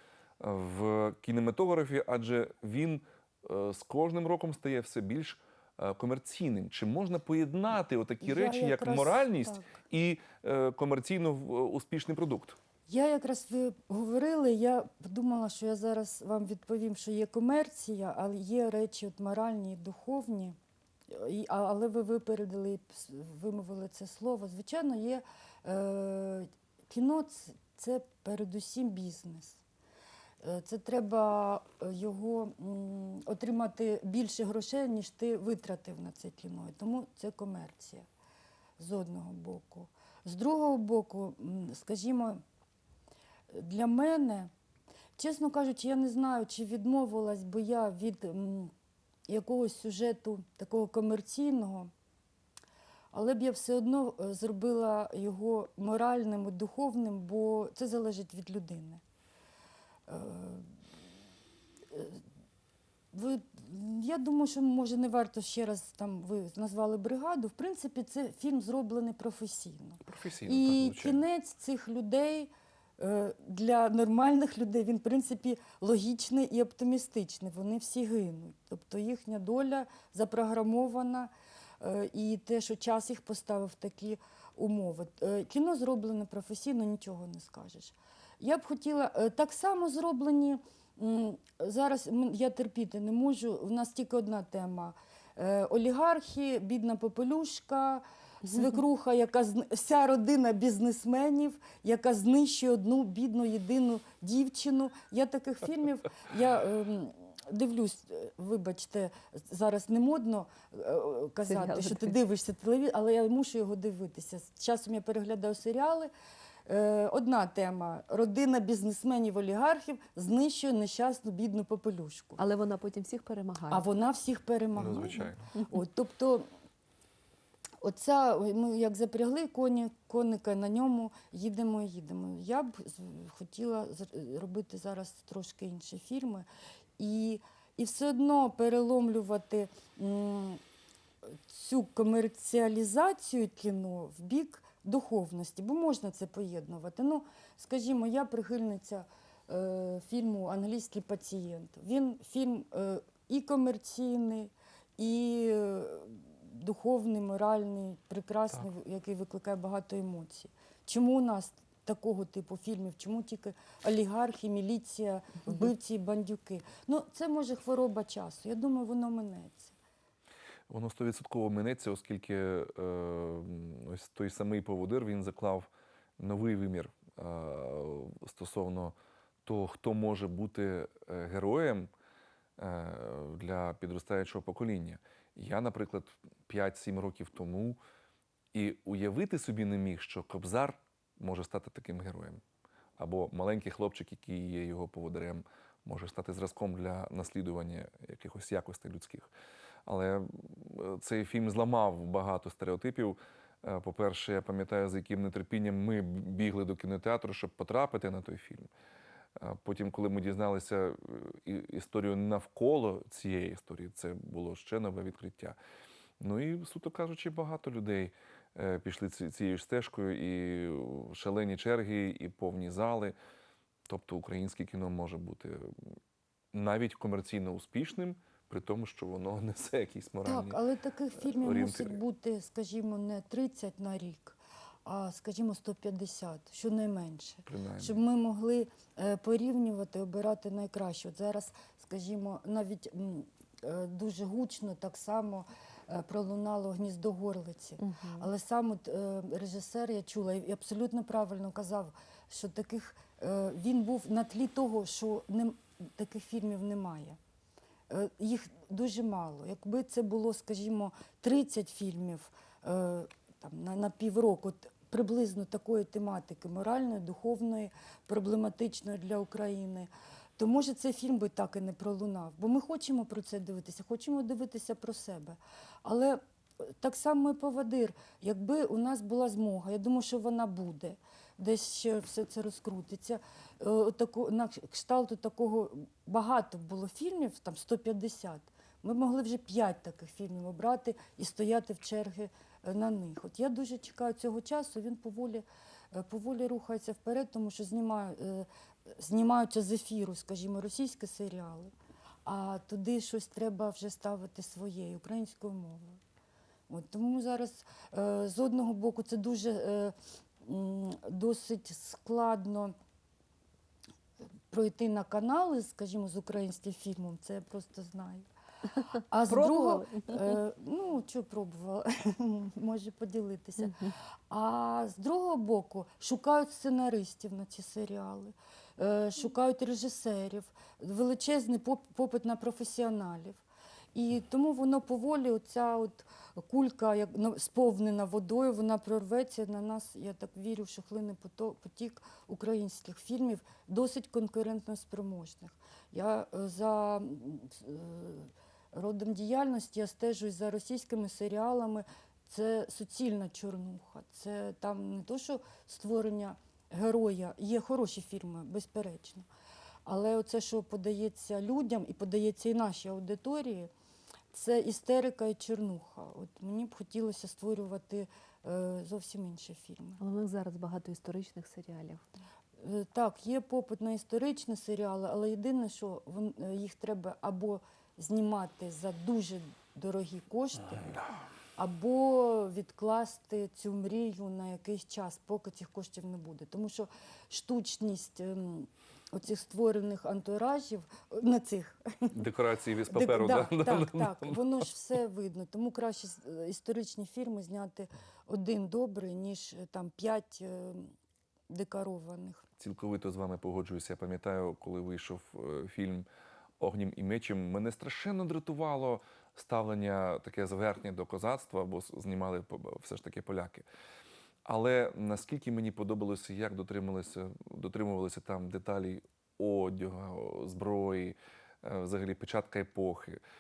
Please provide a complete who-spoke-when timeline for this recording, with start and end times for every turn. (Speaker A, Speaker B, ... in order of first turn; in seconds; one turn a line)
Speaker A: 0.4-12.6
Speaker B: 8.2-9.8
Speaker B: 12.9-20.6
Speaker B: 21.1-29.6
Speaker B: 30.4-38.1
Speaker B: 38.8-42.4
Speaker B: 43.5-44.5
Speaker B: 45.2-48.7
Speaker B: 49.3-51.9
Speaker B: 53.1-59.0
Speaker B: 60.1-60.7
Speaker B: 61.9-62.2
Speaker B: 63.1-116.1
Speaker A: 70.0-71.2
Speaker C: 111.5-112.2
Speaker B: 116.7-122.4
Speaker C: 122.4-123.8
Speaker B: 123.7-126.5
Speaker A: 124.8-125.5
Speaker B: 127.8-136.5
Speaker B: 137.0-140.6
Speaker B: 141.3-169.8
Speaker A: 170.7-181.9
Speaker A: 182.6-187.8
Speaker A: 188.5-192.4
Speaker A: 193.0-199.3
Speaker A: 199.9-208.7
Speaker A: 209.4-215.6
Speaker A: 216.2-223.2
Speaker A: 223.9-226.0
Speaker A: 226.5-230.6
Speaker B: 230.2-257.2
Speaker A: 231.2-232.0
Speaker A: 237.5-238.0
Speaker C: 247.8-248.3
Speaker B: 257.9-301.7
Speaker B: 302.3-306.0
Speaker B: 306.7-312.7
Speaker B: 314.5-333.4
Speaker C: 319.3-320.4
Speaker B: 333.9-359.3
Speaker B: 359.9-363.7
Speaker B: 364.3-370.0
Speaker C: 370.0-372.0
Speaker B: 372.6-380.9
Speaker B: 381.6-392.2
Speaker A: 392.1-394.4
Speaker B: 392.9-400.9
Speaker B: 401.5-402.5
Speaker A: 402.6-406.1
Speaker A: 406.6-413.7
Speaker A: 414.4-423.2